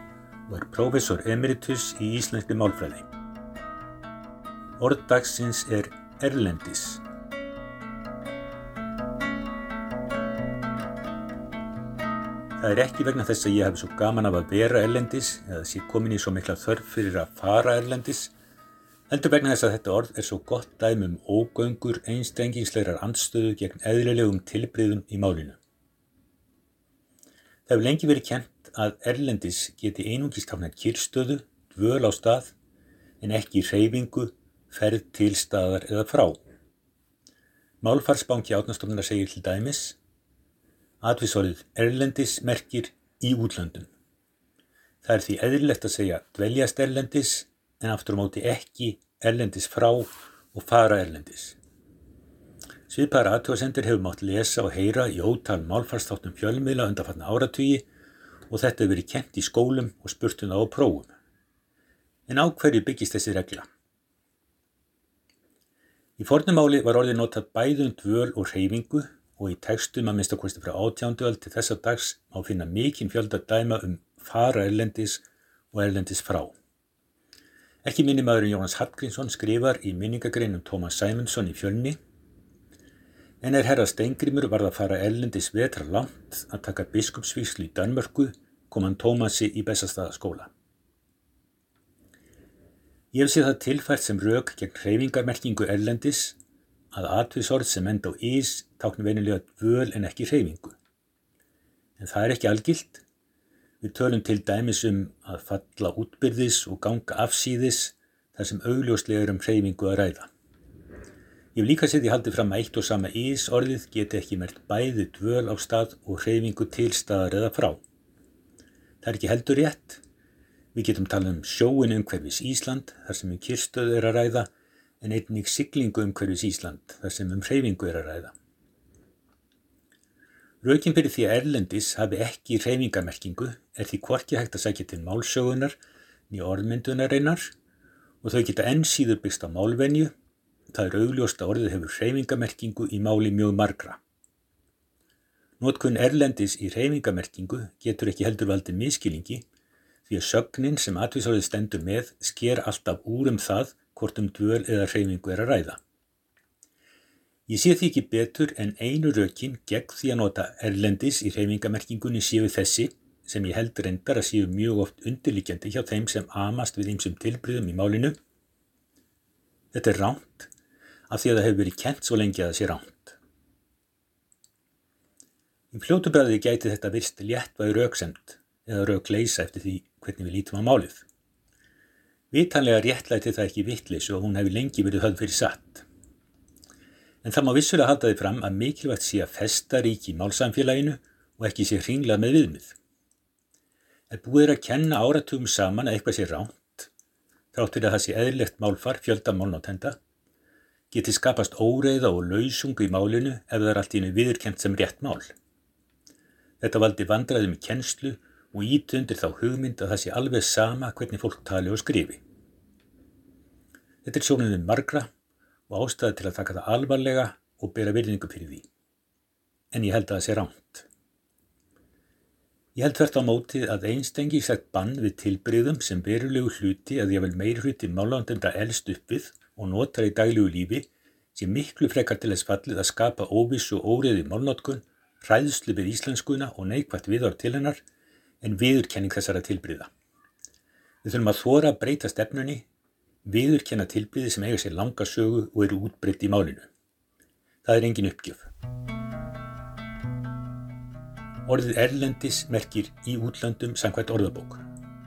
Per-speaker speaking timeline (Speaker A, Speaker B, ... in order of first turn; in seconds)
Speaker A: 0.5-3.1, 4.8-7.0, 12.6-18.3, 19.1-25.6, 27.7-32.5, 33.2-36.4, 37.8-40.0, 41.0-43.9, 45.0-51.6, 52.9-57.8, 58.5-61.1, 62.3-63.7, 66.2-76.5, 77.8-82.0, 83.4-90.5, 93.1-96.4, 96.9-100.8, 102.0-103.0, 103.8-110.3, 111.5-117.8, 119.0-120.0, 120.7-124.5, 125.0-128.3, 130.6-135.8, 136.3-137.5, 138.2-140.1, 140.7-144.0, 145.6-149.4, 150.1-155.8, 157.5-168.2, 169.7-170.5, 171.1-173.2, 175.7-181.0, 182.3-185.8, 187.2-192.8, 194.1-196.9, 197.5-200.0, 200.9-205.3, 206.6-212.2, 214.0-215.1, 215.7-218.7, 219.7-220.9, 222.7-237.8, 238.4-239.9, 241.0-242.7, 243.2-246.7, 247.6-248.5, 251.4-254.6